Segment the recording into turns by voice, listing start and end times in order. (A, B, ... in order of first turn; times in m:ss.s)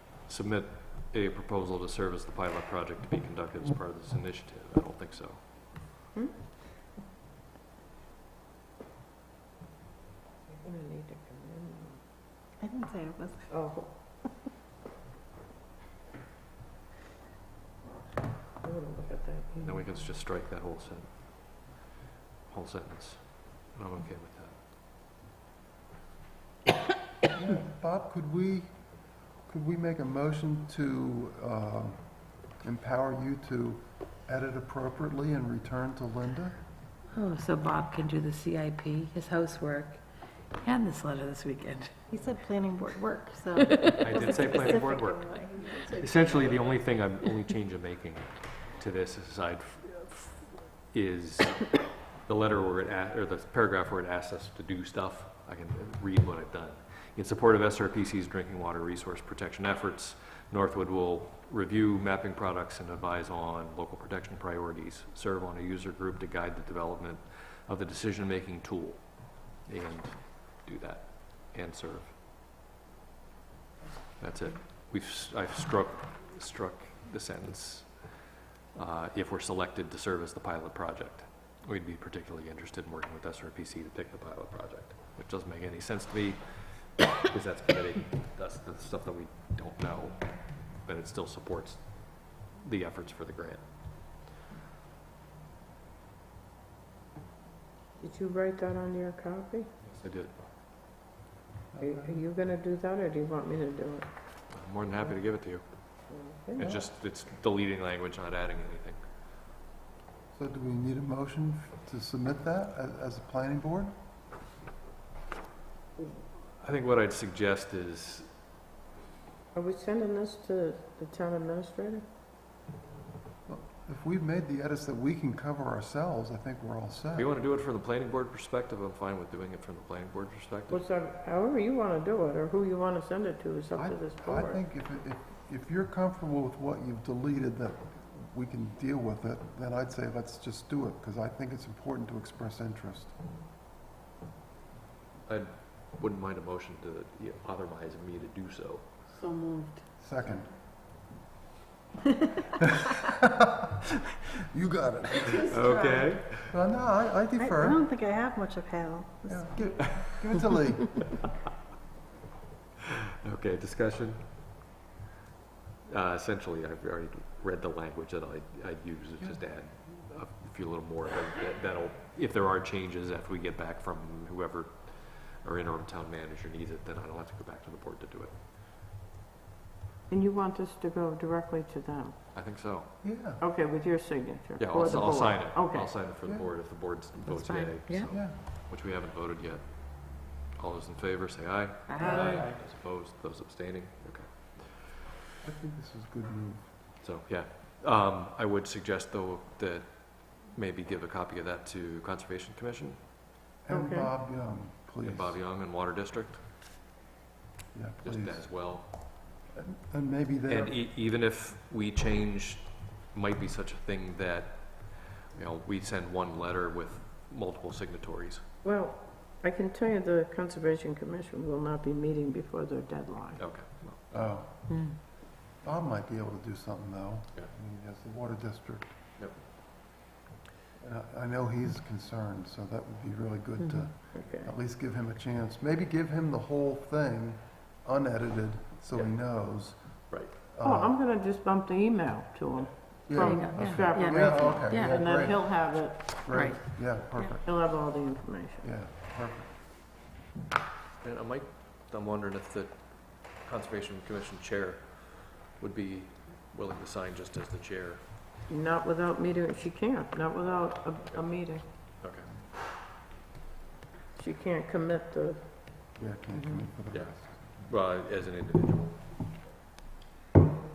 0:00.3-0:05.7 A
0:06.1-0:06.4 B
0:10.5-0:12.0 B
0:12.6-0:13.5 C
0:13.5-0:14.0 B
0:18.6-0:19.9 B
0:19.6-0:21.8 A
0:22.5-0:24.6 A
0:27.3-0:36.6 D
0:37.1-0:40.0 E
0:40.6-0:42.0 E
0:42.1-0:46.7 C
0:43.6-0:44.2 E
0:44.0-1:12.2 A
1:14.2-1:17.9 A
1:18.8-1:26.4 A
1:27.0-1:33.6 A
1:38.0-1:39.7 B
1:39.9-1:40.3 A
1:41.7-1:42.2 D
1:41.8-1:44.1 B
1:44.5-1:45.6 A
1:46.1-1:46.8 B
1:46.6-1:49.0 A
1:50.3-1:54.0 D
1:56.0-1:58.3 A
1:59.5-2:02.0 B
2:03.5-2:07.4 D
2:07.2-2:10.8 A
2:10.7-2:14.6 B
2:13.8-2:23.1 D
2:25.3-2:28.9 A
2:29.2-2:29.8 C
2:30.0-2:30.5 D
2:32.9-2:33.6 D
2:34.4-2:35.6 D
2:35.2-2:36.6 A
2:35.5-2:36.1 C
2:36.5-2:37.8 D
2:37.4-2:39.9 C
2:39.3-2:41.2 D
2:43.2-2:44.2 A
2:45.9-2:58.4 A
3:00.1-3:02.2 B
3:02.3-3:02.9 A
3:03.0-3:03.4 D
3:03.4-3:05.9 B
3:04.6-3:15.1 A
3:06.2-3:06.5 D
3:07.2-3:08.1 E
3:08.1-3:08.4 D
3:11.9-3:12.4 E
3:12.0-3:12.5 B
3:12.1-3:12.3 D
3:15.4-3:16.8 D
3:17.0-3:23.0 A
3:23.6-3:25.4 D
3:23.7-3:24.1 B
3:25.0-3:26.4 A
3:27.7-3:28.5 D
3:28.0-3:29.0 A
3:29.5-3:30.8 D
3:30.5-3:38.4 A
3:38.6-3:43.4 B
3:43.4-3:44.4 A
3:44.1-3:45.1 D
3:44.7-3:45.0 E
3:45.6-3:49.0 D
3:50.8-4:01.0 D
3:53.6-3:53.9 E
3:54.1-3:54.5 B
4:00.6-4:06.2 B
4:03.1-4:07.4 D
4:03.2-4:05.0 E
4:06.3-4:06.6 E
4:07.4-4:08.7 B
4:08.6-4:09.6 D
4:11.0-4:18.0 A
4:18.5-4:21.6 B
4:22.0-4:22.3 A
4:24.2-4:25.5 B
4:26.0-4:27.7 D
4:26.9-4:29.1 A